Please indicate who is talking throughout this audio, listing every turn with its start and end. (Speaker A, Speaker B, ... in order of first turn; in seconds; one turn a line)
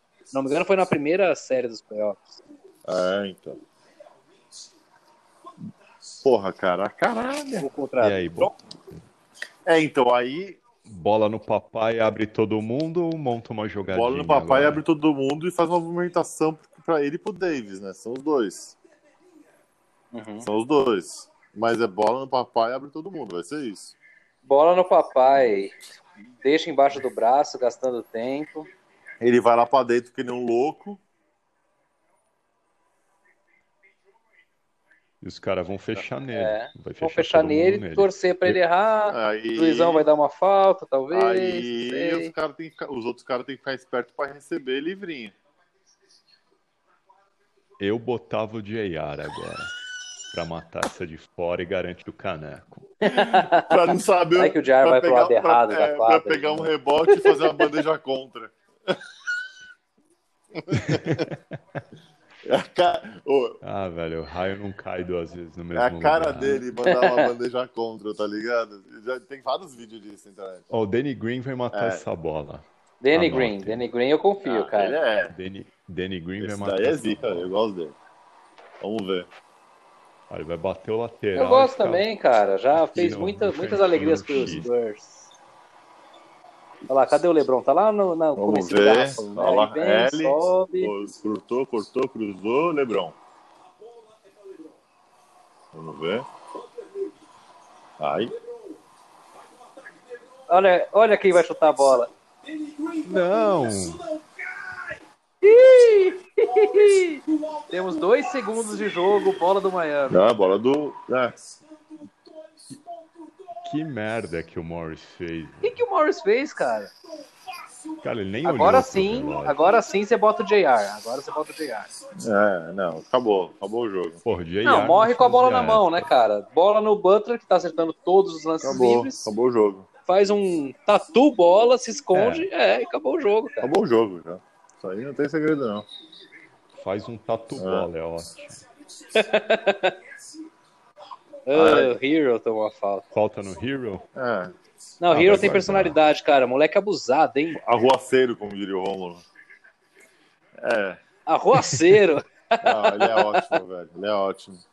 Speaker A: 0.3-2.4
Speaker B: 2.9-3.6
Speaker B: 6.2-7.7
Speaker A: 7.6-8.6
Speaker C: 8.0-8.6
Speaker B: 9.7-10.6
Speaker C: 10.9-14.8
Speaker B: 13.9-18.8
Speaker A: 20.1-20.5
Speaker B: 20.4-23.9
Speaker A: 24.4-25.8
Speaker A: 26.4-28.7
Speaker B: 29.2-31.0
Speaker C: 35.2-38.6
Speaker A: 36.3-42.3
Speaker B: 39.1-40.1
Speaker B: 41.1-45.3
Speaker C: 47.8-49.8
Speaker C: 50.3-52.9
Speaker A: 53.0-53.8
Speaker B: 53.1-59.0
Speaker A: 54.4-57.4
Speaker B: 60.5-61.3
Speaker C: 60.7-61.5
Speaker B: 62.4-63.6
Speaker C: 63.6-66.7
Speaker B: 65.7-70.7
Speaker A: 66.8-67.3
Speaker C: 70.7-73.9
Speaker B: 71.7-72.0
Speaker A: 73.0-75.0
Speaker B: 74.4-75.3
Speaker C: 75.3-77.5
Speaker B: 76.4-78.0
Speaker B: 78.8-79.3
Speaker C: 80.3-82.0
Speaker A: 81.3-85.3
Speaker C: 82.8-84.7
Speaker A: 86.9-90.9
Speaker B: 88.4-93.2
Speaker B: 95.7-96.3
Speaker B: 98.0-98.3
Speaker A: 100.5-102.1
Speaker C: 103.0-104.0
Speaker A: 105.4-110.2
Speaker B: 110.1-111.4
Speaker C: 113.6-115.8
Speaker A: 115.6-116.9
Speaker C: 118.0-119.7
Speaker A: 118.5-121.9
Speaker B: 122.2-124.2
Speaker C: 124.2-126.1
Speaker A: 124.7-129.3
Speaker B: 128.6-129.9
Speaker A: 130.1-133.7
Speaker C: 132.1-132.5
Speaker B: 133.6-135.9
Speaker C: 136.8-138.6
Speaker B: 137.5-137.9
Speaker A: 139.1-140.0
Speaker A: 141.5-143.1
Speaker B: 141.5-141.9
Speaker C: 143.1-144.1
Speaker B: 144.2-144.5
Speaker A: 145.0-147.6
Speaker C: 145.1-146.0
Speaker B: 147.5-149.2
Speaker B: 150.6-151.0
Speaker A: 151.3-153.6
Speaker C: 151.6-152.0
Speaker B: 152.6-154.6